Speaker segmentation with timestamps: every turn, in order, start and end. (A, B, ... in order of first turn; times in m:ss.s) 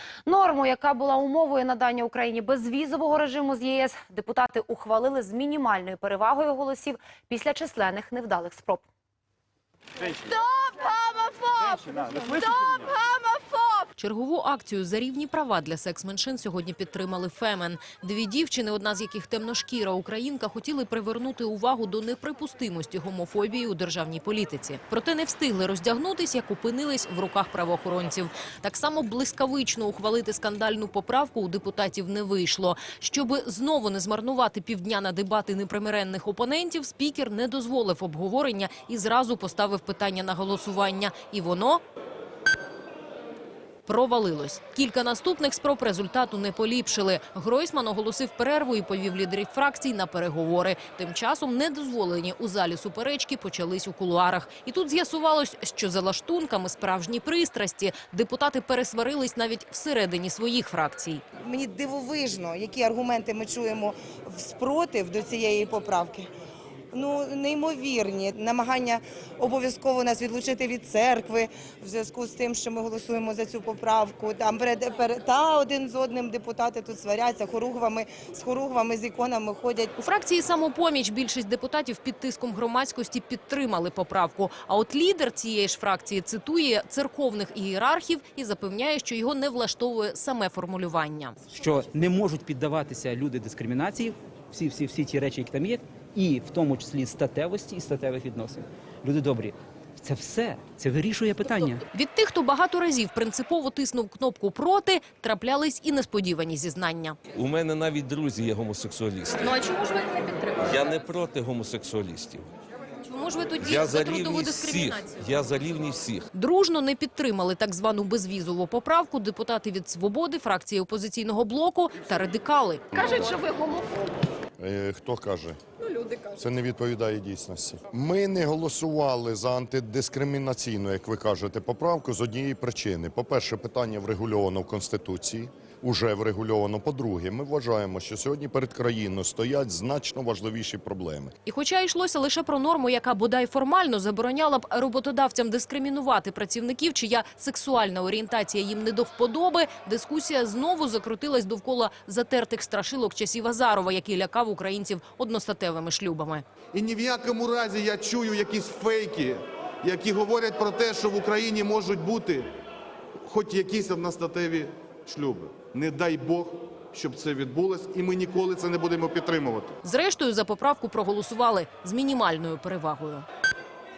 0:00.3-0:08.8 A
0:10.1-0:13.9 A
0:14.0-0:41.8 B
0:43.9-1:01.2 B
1:01.4-1:06.3 C
1:06.9-1:19.9 C
1:20.0-1:31.4 B
1:31.5-1:41.8 D
1:41.9-1:47.2 B
1:47.3-1:49.6 E
1:49.6-1:50.5 B
1:50.6-1:52.5 E
1:53.0-1:55.3 B
1:53.6-1:56.3 E
1:56.3-2:03.2 B
2:04.6-2:05.6 F
2:06.2-2:21.3 F
2:21.5-2:36.4 B
2:36.7-2:42.5 G
2:43.3-2:49.7 G
2:49.8-2:53.3 B